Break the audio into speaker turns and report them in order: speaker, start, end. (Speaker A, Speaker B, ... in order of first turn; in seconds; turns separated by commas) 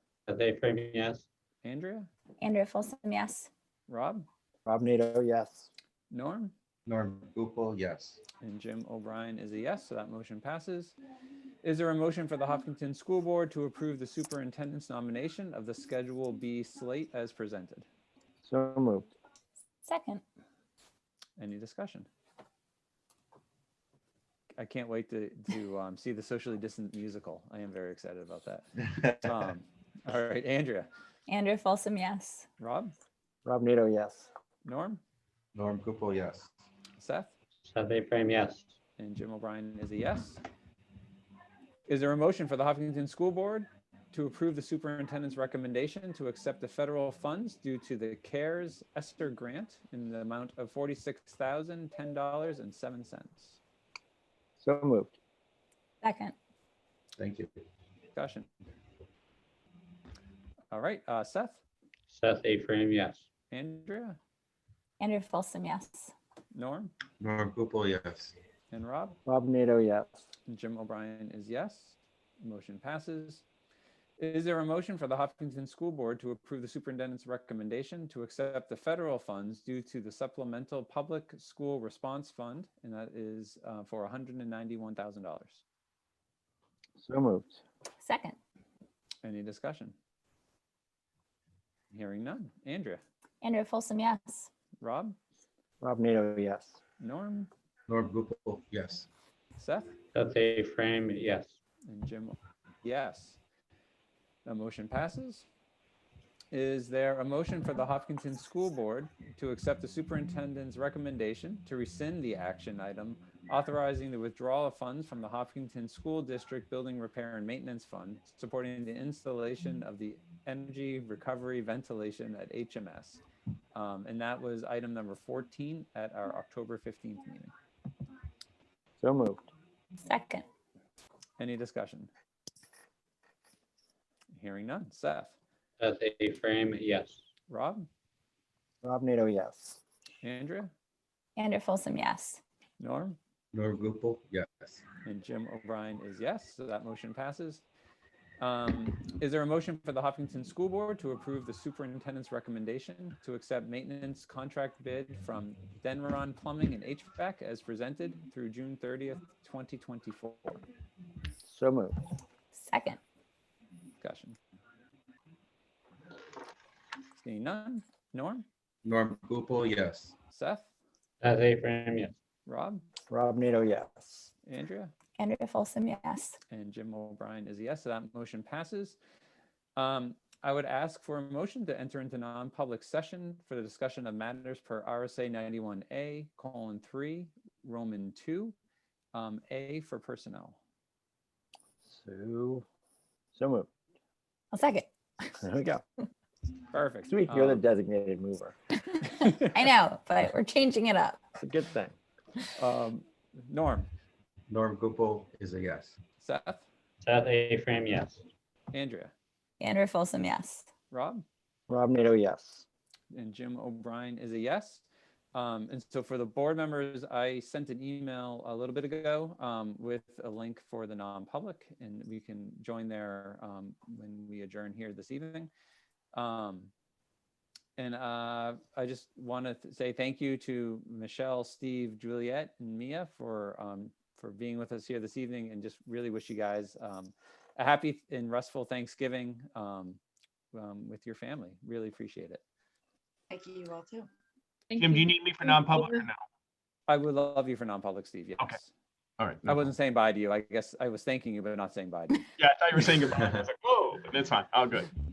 Speaker A: 0.3-1.2, Speaker B: 1.6-2.1, Speaker C: 2.4-3.5, Speaker B: 3.9-4.3, Speaker D: 4.7-5.7, Speaker B: 6.1-6.5, Speaker E: 6.8-8.2, Speaker B: 8.4-10.9, Speaker B: 11.6-17.9, Speaker D: 18.4-19.1, Speaker C: 19.9-20.2, Speaker B: 21.4-22.1, Speaker B: 24.6-30.9, Speaker C: 31.3-32.5, Speaker B: 32.6-32.9, Speaker D: 33.4-34.3, Speaker B: 34.6-35.0, Speaker E: 35.5-36.5, Speaker B: 37.0-37.3, Speaker A: 37.6-38.7, Speaker B: 39.0-40.4, Speaker B: 41.9-53.6, Speaker D: 54.6-55.1, Speaker C: 56.0-56.3, Speaker E: 57.2-57.5, Speaker B: 58.1-58.5, Speaker B: 60.7-61.6, Speaker A: 62.1-63.2, Speaker B: 63.5-64.2, Speaker C: 65.0-66.1, Speaker B: 66.5-66.9, Speaker E: 67.2-68.3, Speaker B: 68.7-69.2, Speaker D: 69.2-70.2, Speaker B: 70.5-73.4, Speaker B: 74.2-85.6, Speaker D: 87.0-87.6, Speaker C: 88.0-88.3, Speaker B: 89.2-89.9, Speaker B: 91.9-93.0, Speaker C: 93.4-94.5, Speaker B: 94.8-95.2, Speaker D: 95.8-96.8, Speaker B: 97.0-97.5, Speaker E: 97.9-99.1, Speaker B: 99.6-99.9, Speaker A: 100.1-101.6, Speaker B: 101.8-103.4, Speaker B: 104.4-105.5, Speaker B: 106.5-123.2, Speaker B: 123.7-127.5, Speaker D: 129.0-129.5, Speaker C: 130.0-130.4, Speaker B: 131.4-132.1, Speaker B: 134.3-135.3, Speaker A: 135.8-137.2, Speaker B: 137.5-137.9, Speaker D: 138.8-139.8, Speaker B: 140.2-140.7, Speaker C: 141.4-142.4, Speaker B: 142.8-143.2, Speaker E: 143.5-144.8, Speaker B: 145.0-147.6, Speaker B: 148.4-160.6, Speaker D: 161.4-162.0, Speaker C: 162.5-163.0, Speaker B: 164.0-164.3, Speaker B: 167.2-168.4, Speaker E: 168.8-170.1, Speaker B: 170.3-170.7, Speaker A: 171.2-172.2, Speaker B: 172.4-172.8, Speaker D: 173.1-174.3, Speaker B: 174.4-174.9, Speaker C: 175.2-176.4, Speaker B: 176.5-179.0, Speaker B: 179.8-188.5, Speaker B: 189.1-190.6, Speaker D: 191.8-192.6, Speaker D: 193.3-193.7, Speaker C: 194.5-195.3, Speaker D: 195.4-195.8, Speaker B: 196.7-197.6, Speaker D: 197.1-198.6, Speaker C: 198.9-201.2, Speaker D: 201.4-201.9, Speaker B: 202.5-203.9, Speaker E: 204.5-206.0, Speaker B: 206.2-206.6, Speaker A: 207.0-208.2, Speaker B: 208.7-209.1, Speaker C: 209.6-210.7, Speaker B: 210.9-211.2, Speaker D: 211.7-212.6, Speaker B: 213.1-225.5, Speaker B: 226.1-226.7, Speaker B: 227.8-240.0, Speaker B: 240.5-242.4, Speaker F: 244.7-246.2, Speaker B: 246.9-248.7, Speaker F: 249.2-249.6, Speaker B: 249.4-252.2, Speaker F: 252.4-254.9